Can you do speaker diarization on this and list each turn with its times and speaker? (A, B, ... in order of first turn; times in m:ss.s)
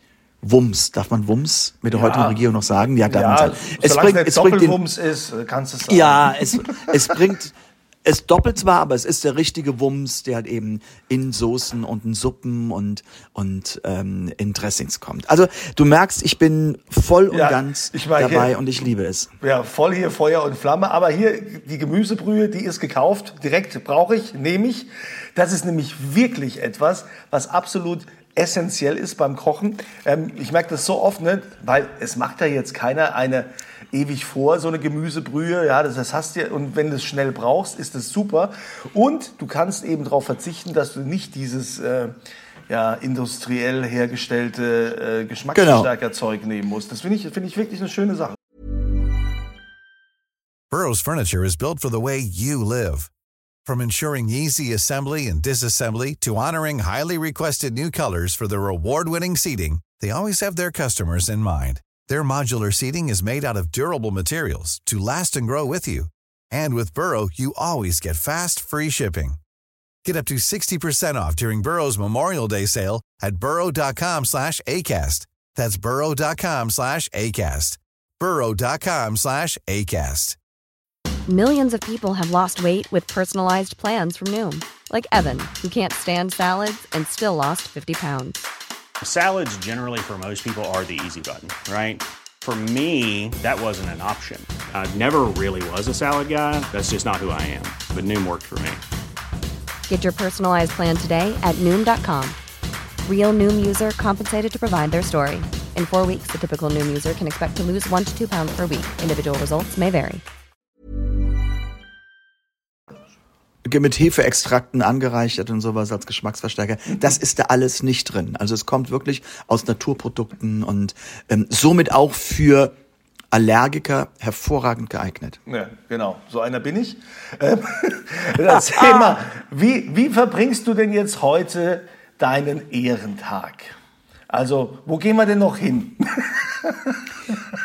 0:00.4-0:04.8 A
0:01.9-0:07.2 B
0:05.9-0:19.3 A
0:17.3-0:18.5 B
0:19.4-0:42.1 B
0:42.7-0:48.4 B
0:45.5-0:45.9 A
0:50.7-0:53.1 C
0:53.6-1:09.4 C
1:10.0-1:20.4 C
1:21.3-1:28.4 D
1:29.0-1:38.8 E
1:39.9-1:42.4 D
1:43.0-1:50.2 D
1:53.6-2:02.7 A
2:03.3-2:05.4 A
2:05.5-2:13.7 B
2:08.5-2:09.2 A
2:14.3-2:17.4 B